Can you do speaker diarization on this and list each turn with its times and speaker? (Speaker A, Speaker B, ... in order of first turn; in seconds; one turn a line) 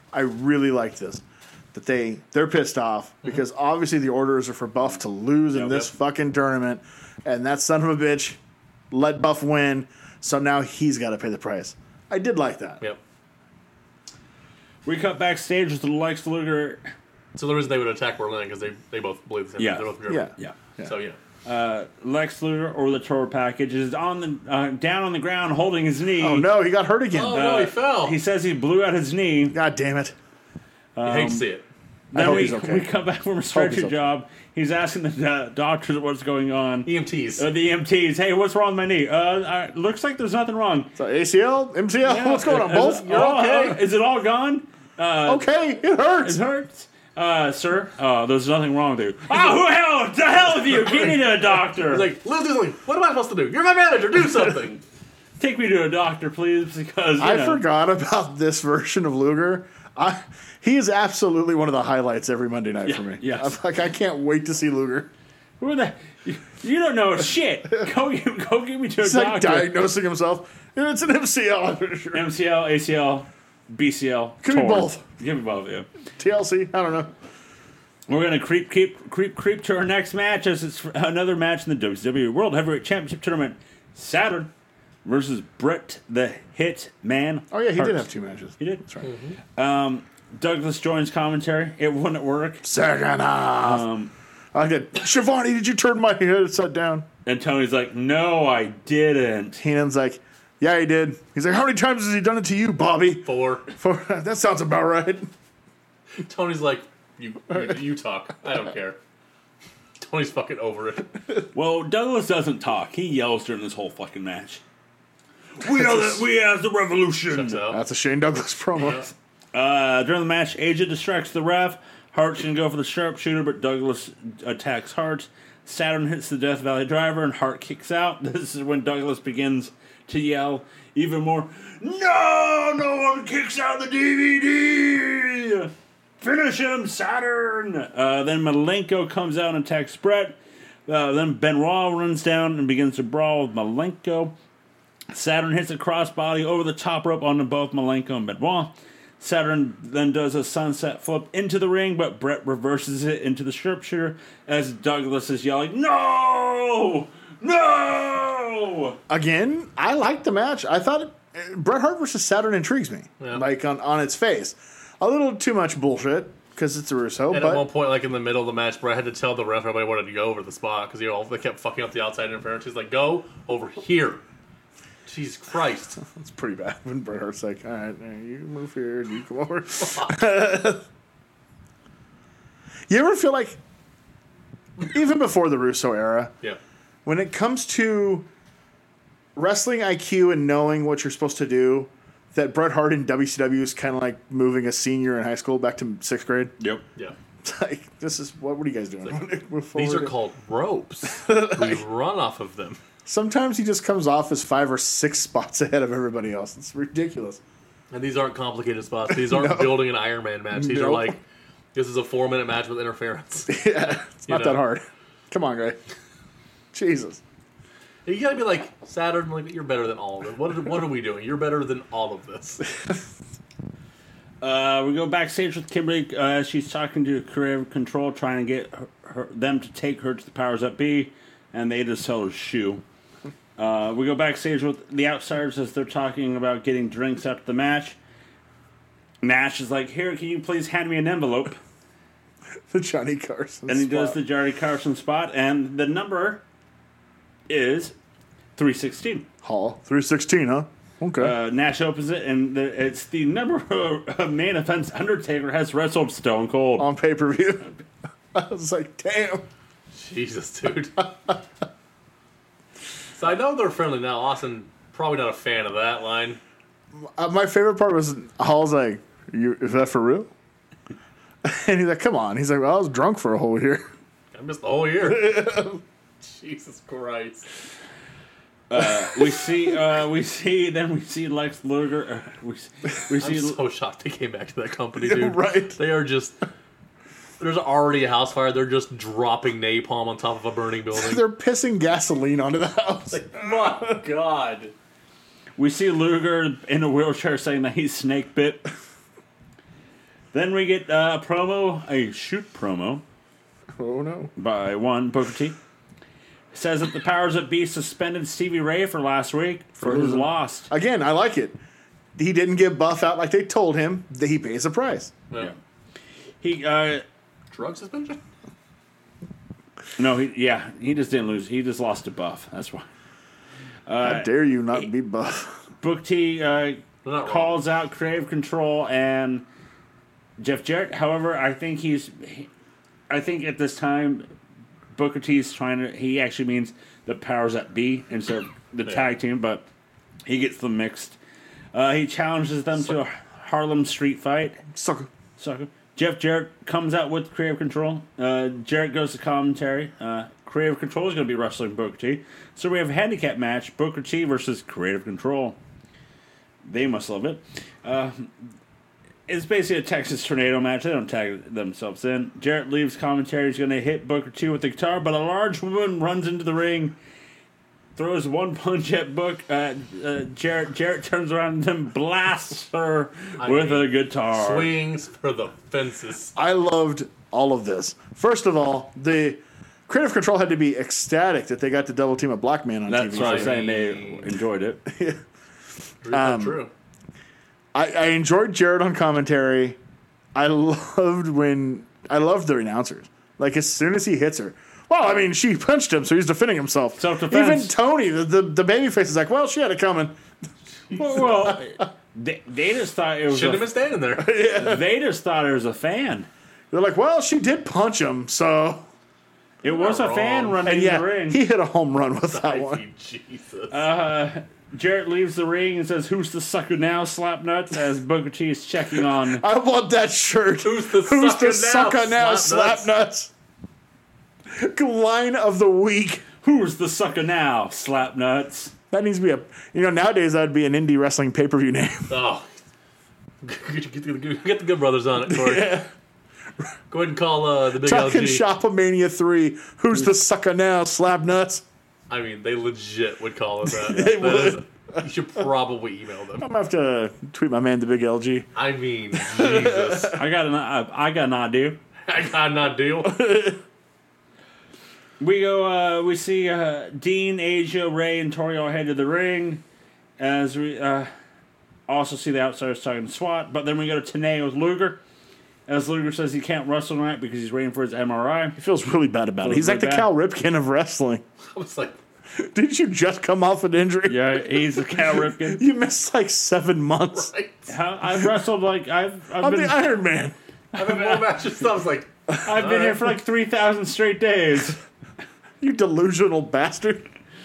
Speaker A: 0.1-1.2
Speaker A: 1.7-8.4
Speaker B: 5.5-5.9
Speaker A: 8.9-12.8
Speaker C: 14.8-16.8
Speaker B: 17.4-20.3
Speaker C: 19.6-20.6
Speaker A: 20.1-20.9
Speaker B: 20.8-21.2
Speaker C: 21.4-26.5
Speaker A: 26.2-27.4
Speaker B: 27.1-28.2
Speaker C: 27.3-29.6
Speaker A: 29.5-30.1
Speaker C: 31.0-31.4
Speaker B: 31.1-31.6
Speaker C: 32.1-40.9
Speaker A: 32.1-32.9
Speaker A: 33.5-34.0
Speaker B: 36.9-37.5
Speaker A: 41.0-43.3
Speaker C: 42.0-45.5
Speaker B: 42.3-43.8
Speaker A: 45.3-46.4
Speaker C: 46.2-52.1
Speaker B: 51.9-54.8
Speaker C: 55.4-57.6
Speaker A: 57.2-65.1
Speaker C: 62.9-63.6
Speaker C: 65.6-69.7
Speaker A: 69.0-72.3
Speaker C: 72.1-75.9
Speaker A: 74.4-75.0
Speaker A: 76.2-77.1
Speaker C: 78.1-84.5
Speaker C: 85.0-88.1
Speaker A: 87.5-89.1
Speaker C: 88.6-88.8
Speaker B: 89.0-89.4
Speaker C: 89.6-92.6
Speaker A: 92.6-93.8
Speaker C: 93.6-94.1
Speaker A: 94.5-97.1
Speaker C: 97.2-99.6
Speaker A: 99.6-105.3
Speaker B: 103.2-103.7
Speaker B: 106.2-109.0
Speaker B: 110.0-111.2
Speaker C: 111.5-114.6
Speaker C: 115.6-117.6
Speaker A: 115.6-116.2
Speaker B: 117.3-117.8
Speaker A: 117.7-119.1
Speaker B: 118.8-119.1
Speaker C: 119.5-144.3
Speaker C: 145.1-159.0
Speaker A: 159.1-167.7
Speaker B: 167.3-174.2
Speaker B: 175.1-176.0
Speaker A: 176.0-180.8
Speaker B: 179.8-180.1
Speaker A: 182.9-183.6
Speaker A: 184.8-186.3
Speaker A: 187.1-188.3
Speaker A: 189.4-196.6
Speaker A: 197.4-200.1
Speaker B: 199.8-202.8
Speaker A: 201.1-201.8
Speaker A: 203.1-207.4
Speaker B: 207.9-211.2
Speaker A: 209.1-209.9
Speaker A: 210.5-211.2
Speaker B: 211.7-213.7
Speaker A: 213.5-215.8
Speaker B: 214.3-214.6
Speaker A: 216.7-217.2
Speaker B: 218.1-222.7
Speaker C: 224.4-232.8
Speaker C: 233.6-238.0
Speaker C: 239.2-241.6
Speaker A: 242.7-244.2
Speaker C: 243.7-246.4
Speaker C: 247.5-247.9
Speaker C: 248.6-249.3
Speaker A: 249.4-251.3
Speaker C: 251.2-256.9
Speaker A: 256.8-257.7
Speaker A: 258.3-259.4
Speaker B: 259.9-261.3
Speaker B: 263.2-266.4
Speaker A: 266.9-270.3
Speaker A: 271.4-273.9
Speaker B: 274.3-275.6
Speaker A: 275.1-275.8
Speaker B: 276.2-277.4
Speaker C: 278.7-283.6
Speaker B: 283.2-286.4
Speaker A: 285.0-285.8
Speaker B: 287.4-291.2
Speaker A: 290.9-293.9
Speaker B: 293.1-294.7
Speaker C: 295.6-298.7
Speaker C: 300.3-303.0
Speaker A: 303.8-304.3
Speaker C: 304.4-305.6
Speaker C: 306.5-310.7
Speaker A: 309.8-311.6
Speaker A: 312.2-315.1
Speaker C: 316.4-317.0
Speaker B: 317.5-318.2
Speaker C: 320.0-322.9
Speaker C: 323.9-324.9
Speaker A: 324.0-325.6
Speaker C: 325.8-329.4
Speaker B: 327.0-327.6
Speaker C: 330.4-332.5
Speaker C: 333.1-334.3
Speaker C: 334.9-339.7
Speaker C: 340.2-341.2
Speaker C: 341.7-344.6
Speaker A: 344.7-345.1
Speaker C: 345.4-355.6
Speaker C: 356.6-358.3
Speaker C: 359.3-366.9
Speaker C: 368.0-374.7
Speaker B: 373.4-376.3
Speaker A: 376.4-383.6
Speaker C: 382.9-384.8
Speaker B: 383.1-384.3
Speaker A: 384.9-385.2
Speaker B: 386.0-386.7
Speaker A: 386.1-386.7
Speaker A: 387.7-389.8
Speaker A: 390.4-400.2
Speaker C: 397.0-397.7
Speaker C: 400.9-403.7
Speaker A: 401.0-401.6
Speaker B: 403.3-404.4
Speaker A: 404.2-404.8
Speaker C: 404.3-406.3
Speaker A: 406.7-408.9
Speaker C: 409.6-411.4
Speaker B: 409.6-410.6
Speaker A: 410.6-412.8
Speaker B: 412.3-413.8
Speaker C: 413.7-419.4
Speaker A: 419.3-423.3
Speaker B: 420.6-422.9
Speaker A: 424.5-426.2
Speaker C: 426.4-428.7
Speaker A: 428.9-432.2
Speaker B: 432.1-432.5
Speaker B: 433.4-435.8
Speaker A: 435.3-435.9
Speaker B: 436.9-438.4
Speaker A: 437.8-441.6
Speaker B: 442.1-446.5
Speaker A: 443.7-445.0
Speaker A: 446.4-448.5
Speaker B: 448.6-450.2
Speaker A: 449.1-450.2
Speaker C: 450.1-451.8
Speaker B: 452.1-453.2
Speaker A: 453.0-453.6
Speaker C: 455.2-459.6
Speaker C: 460.2-461.1
Speaker C: 461.9-465.0
Speaker C: 465.7-468.6
Speaker A: 468.6-471.2
Speaker C: 469.4-470.1
Speaker B: 471.5-472.0
Speaker A: 472.4-477.3
Speaker C: 474.1-475.6
Speaker B: 477.1-477.6
Speaker C: 477.7-479.8
Speaker A: 479.4-480.4
Speaker C: 480.8-481.3
Speaker B: 480.8-483.0
Speaker C: 482.4-484.8
Speaker A: 485.6-487.1